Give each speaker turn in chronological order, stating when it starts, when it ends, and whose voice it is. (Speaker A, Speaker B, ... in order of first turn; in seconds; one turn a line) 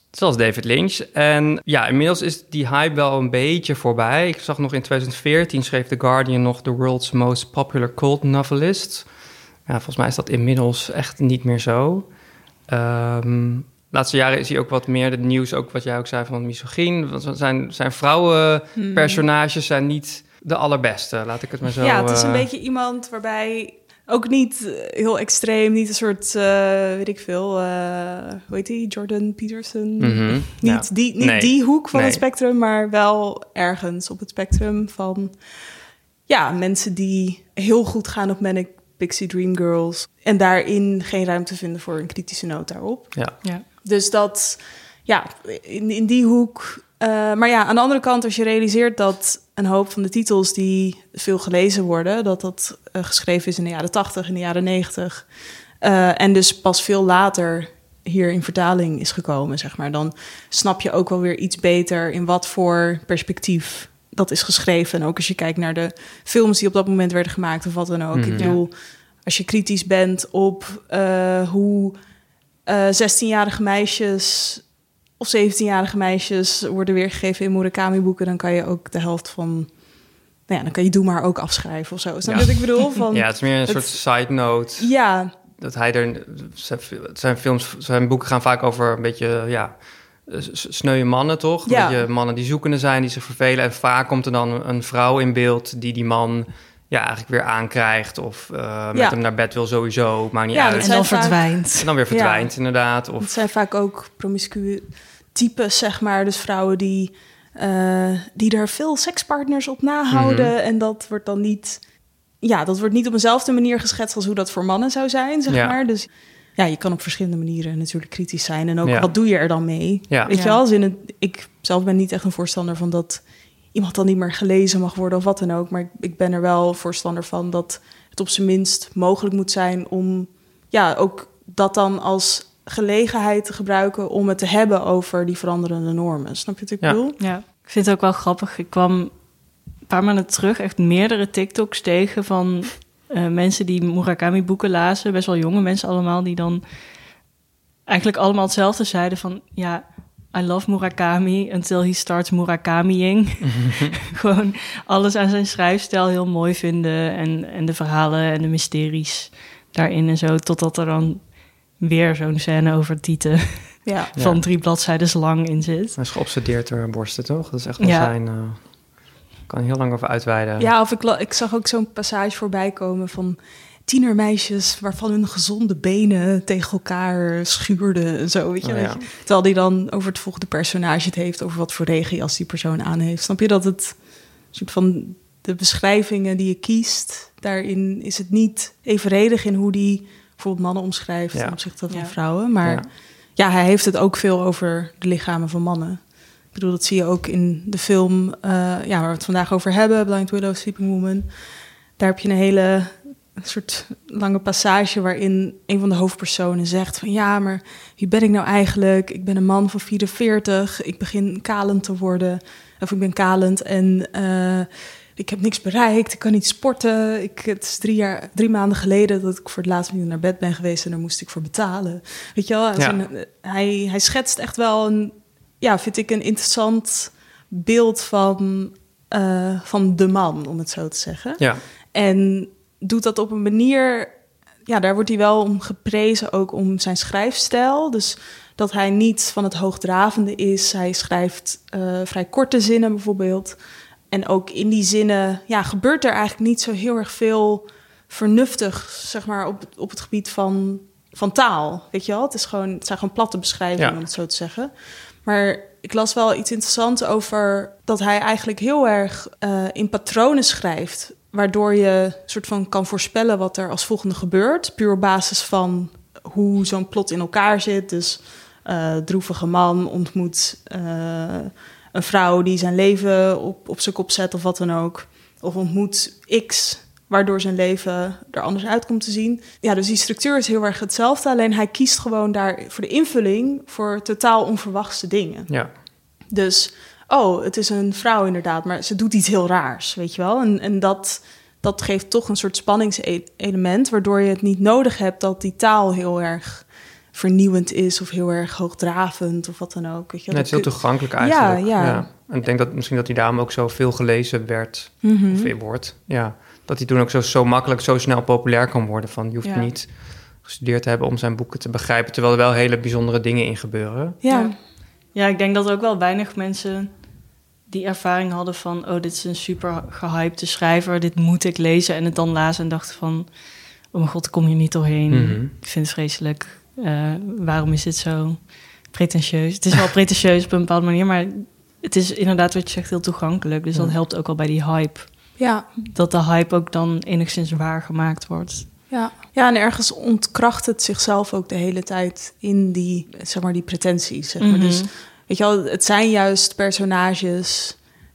Speaker A: 0.1-9.1
Speaker A: 9.7-12.1
Speaker A: 12.7-22.5
Speaker B: 18.8-19.2
Speaker B: 21.8-35.6
Speaker A: 30.0-32.2
Speaker B: 36.3-55.3
Speaker B: 55.8-72.0
Speaker A: 68.1-68.6
Speaker B: 72.7-74.7
Speaker B: 75.2-79.7
Speaker B: 80.5-85.3
Speaker A: 82.2-84.9
Speaker A: 85.5-103.4
Speaker B: 91.7-92.1
Speaker B: 100.5-102.6
Speaker C: 100.8-101.9
Speaker B: 103.2-111.8
Speaker A: 110.1-110.5
Speaker B: 112.4-137.2
Speaker A: 115.5-115.8
Speaker A: 118.8-119.1
Speaker C: 120.3-120.6
Speaker C: 137.2-139.1
Speaker C: 139.9-146.6
Speaker C: 147.9-166.0
Speaker A: 153.4-154.0
Speaker B: 163.8-164.1
Speaker A: 164.2-164.4
Speaker A: 165.9-168.8
Speaker C: 167.8-168.1
Speaker A: 169.5-170.7
Speaker B: 170.6-201.4
Speaker A: 178.6-179.0
Speaker A: 191.3-191.6
Speaker C: 191.9-192.2
Speaker B: 202.0-243.6
Speaker B: 244.1-285.5
Speaker B: 286.3-302.1
Speaker A: 300.3-314.2
Speaker B: 305.0-305.5
Speaker C: 309.4-309.7
Speaker B: 314.2-314.5
Speaker C: 314.3-314.6
Speaker C: 315.1-317.0
Speaker C: 317.7-323.3
Speaker C: 323.9-338.7
Speaker A: 325.1-325.5
Speaker A: 333.7-334.0
Speaker B: 335.4-335.7
Speaker B: 338.9-347.8
Speaker C: 344.4-344.9